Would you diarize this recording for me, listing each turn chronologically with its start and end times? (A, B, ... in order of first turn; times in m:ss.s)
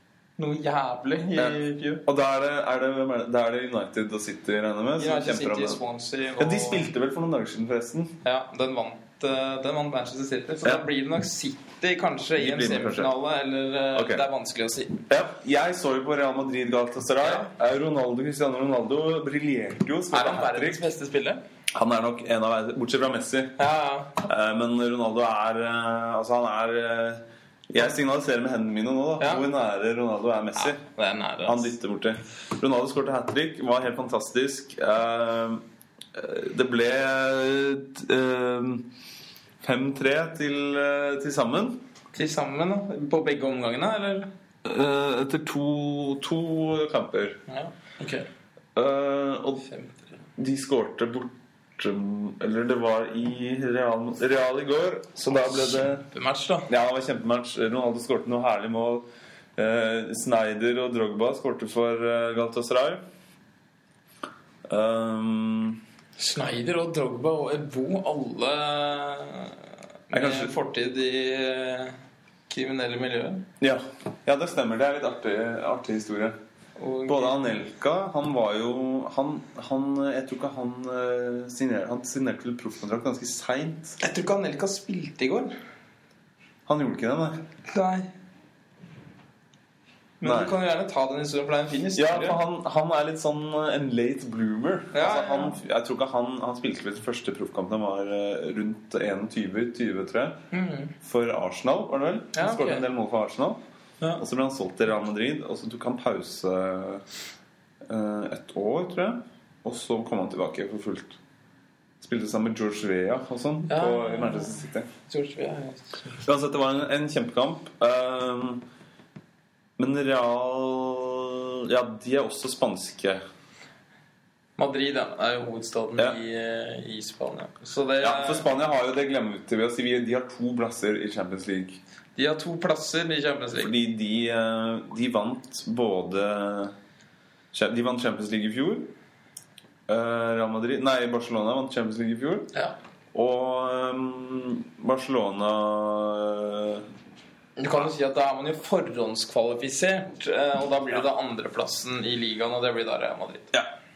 0:00.4-0:02.0 A
0:01.4-0:05.8 B
0:05.0-0:06.9 A
0:06.4-0:08.1 B
0:08.2-0:15.0 A
0:12.4-0:13.1 B
0:13.9-0:14.2 B
0:15.1-0:20.8 B
0:17.2-0:17.5 A
0:20.1-0:21.4 A
0:21.7-0:23.5 B
0:23.6-0:24.1 A
0:24.2-0:30.8 B
0:29.2-0:29.4 A
0:30.6-0:31.7 A
0:31.4-0:35.6 B
0:36.1-0:38.9 B
0:39.6-0:41.8 B
0:42.1-0:44.3 A
0:44.6-0:47.4 B
0:47.5-0:48.3 A
0:48.8-0:49.6 B
0:49.7-0:50.0 A
0:50.4-0:56.0 B
0:55.3-0:56.7 A
0:56.7-0:59.0 B
0:59.6-1:03.0 B
1:04.7-1:05.8 B
1:06.2-1:09.6 A
1:10.1-1:12.0 A
1:10.1-1:10.5 B
1:12.5-1:13.4 A
1:13.6-1:16.4 B
1:16.8-1:17.5 A
1:17.1-1:24.0 B
1:24.0-1:25.5 A
1:26.6-1:27.4 B
1:27.7-1:28.1 A
1:30.2-1:32.4 A
1:30.2-1:30.6 B
1:31.9-1:40.4 B
1:34.9-1:35.6 A
1:40.5-1:40.9 A
1:41.0-1:43.6 B
1:42.3-1:42.8 A
1:44.2-1:47.0 B
1:47.9-1:51.2 B
1:52.0-1:54.9 B
1:53.7-1:56.2 A
1:56.2-1:58.6 B
1:59.8-2:03.2 B
2:04.6-2:08.5 A
2:08.0-2:11.8 B
2:12.2-2:13.7 A
2:13.6-2:16.7 B
2:17.5-2:18.9 B
2:19.9-2:22.5 B
2:23.1-2:26.9 B
2:27.6-2:33.5 A